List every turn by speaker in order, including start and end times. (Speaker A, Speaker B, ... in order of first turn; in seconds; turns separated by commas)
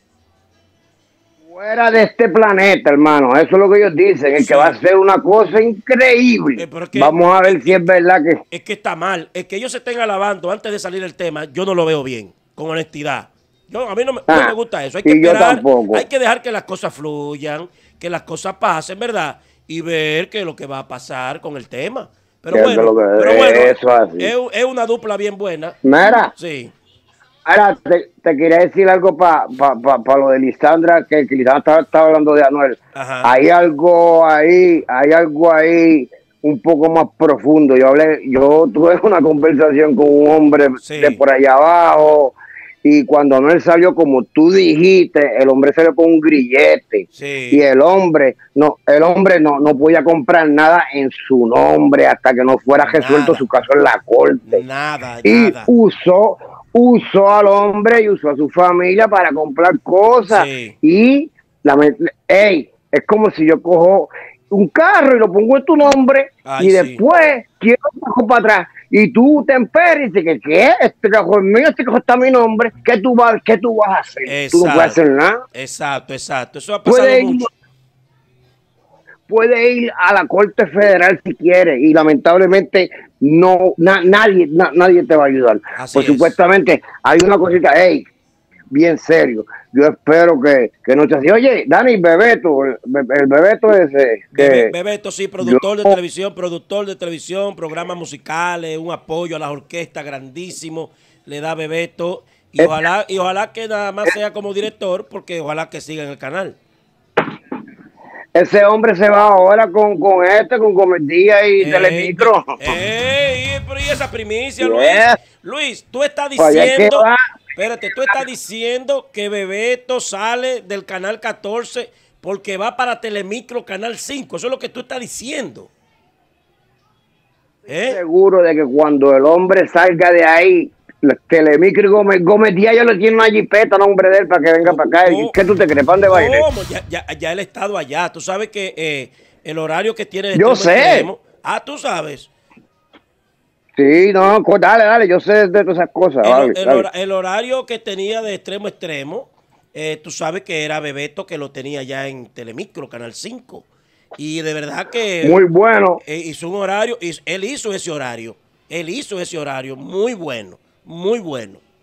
Speaker A: 1.4-8.4, Speaker B: 4.4-4.8, Speaker B: 6.6-7.8, Speaker B: 8.5-25.8, Speaker A: 14.3-16.1, Speaker A: 22.5-24.3, Speaker A: 25.8-26.3, Speaker B: 26.4-26.7, Speaker A: 27.4-54.6, Speaker B: 33.0-33.3, Speaker B: 40.8-41.2, Speaker B: 47.1-47.6, Speaker B: 52.8-53.5, Speaker B: 54.5-55.7, Speaker A: 55.2-75.4, Speaker B: 60.3-60.8, Speaker B: 66.5-67.0, Speaker B: 74.3-75.0, Speaker B: 75.5-77.5, Speaker A: 76.8-77.5, Speaker A: 79.3-88.1, Speaker B: 85.8-86.3, Speaker A: 88.7-94.7, Speaker B: 94.3-106.6, Speaker A: 95.4-96.0, Speaker A: 102.6-102.8, Speaker A: 108.3-112.7, Speaker B: 111.6-117.0, Speaker A: 114.6-115.2, Speaker A: 116.4-117.2, Speaker B: 117.6-125.7, Speaker B: 127.7-128.0, Speaker A: 127.7-136.4, Speaker B: 134.6-135.4, Speaker B: 136.1-142.3, Speaker A: 140.3-141.1, Speaker A: 143.8-146.9, Speaker B: 146.2-155.4, Speaker A: 155.2-156.0, Speaker B: 156.0-161.6